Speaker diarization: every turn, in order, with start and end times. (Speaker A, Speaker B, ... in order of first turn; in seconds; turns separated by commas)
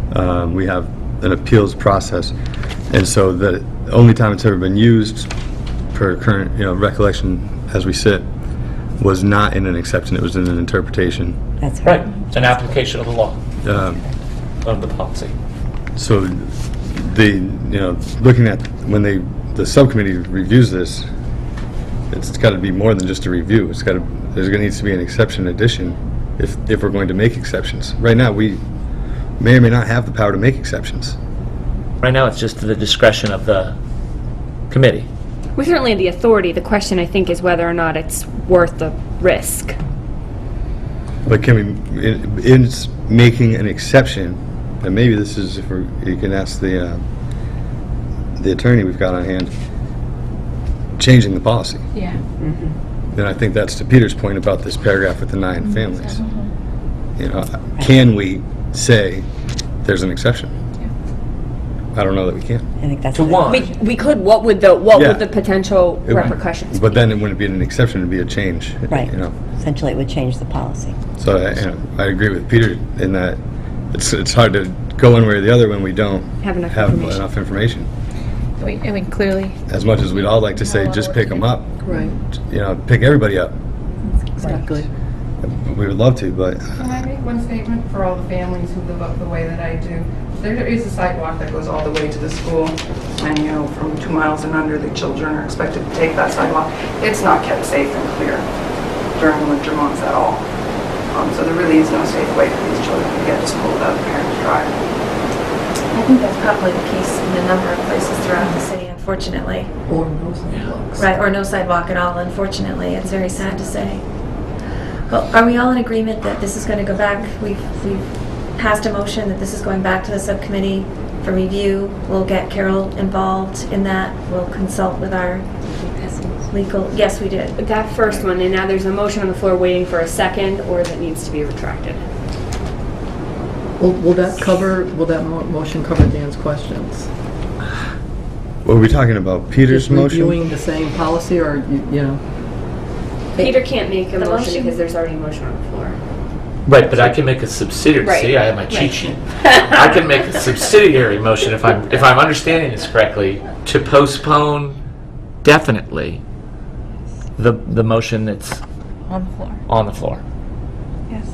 Speaker A: 0.1-2.3, Speaker A: 2.9-5.3, Speaker A: 5.9-8.3, Speaker A: 9.0-11.4, Speaker B: 11.6-12.7, Speaker C: 11.8-13.4, Speaker A: 13.6-14.0, Speaker C: 14.6-15.3, Speaker A: 15.9-21.1, Speaker A: 22.1-28.6, Speaker A: 29.4-31.1, Speaker C: 32.0-33.8, Speaker C: 34.7-35.1, Speaker D: 35.5-39.8, Speaker A: 41.2-47.0, Speaker A: 48.4-49.5, Speaker A: 51.0-51.8, Speaker E: 51.9-52.2, Speaker A: 53.1-56.2, Speaker E: 55.6-56.5, Speaker A: 57.2-59.2, Speaker A: 59.8-60.5, Speaker A: 61.9-62.6, Speaker B: 62.8-63.7, Speaker C: 63.1-63.6, Speaker D: 63.5-67.0, Speaker A: 64.9-65.3, Speaker A: 66.0-69.3, Speaker B: 68.9-71.0, Speaker A: 71.2-73.4, Speaker A: 73.9-77.9, Speaker D: 76.4-77.2, Speaker E: 78.6-79.6, Speaker A: 79.7-81.8, Speaker E: 80.1-82.1, Speaker F: 81.8-82.2, Speaker A: 82.3-83.5, Speaker F: 84.3-84.9, Speaker A: 85.4-86.7, Speaker G: 86.8-98.4, Speaker G: 99.1-100.4, Speaker G: 101.1-104.8, Speaker H: 105.9-109.7, Speaker F: 109.9-111.1, Speaker C: 110.5-110.7, Speaker H: 111.0-114.0, Speaker H: 115.1-125.5, Speaker B: 125.7-126.5, Speaker H: 126.5-127.6, Speaker D: 127.6-132.0, Speaker F: 133.8-137.1, Speaker A: 138.6-140.4, Speaker F: 139.6-142.2, Speaker F: 143.3-143.6, Speaker D: 143.4-146.0, Speaker H: 144.2-144.8, Speaker C: 146.6-154.8, Speaker D: 148.0-149.0, Speaker C: 155.4-156.2, Speaker C: 157.4-158.6, Speaker E: 159.1-159.6, Speaker C: 159.7-160.2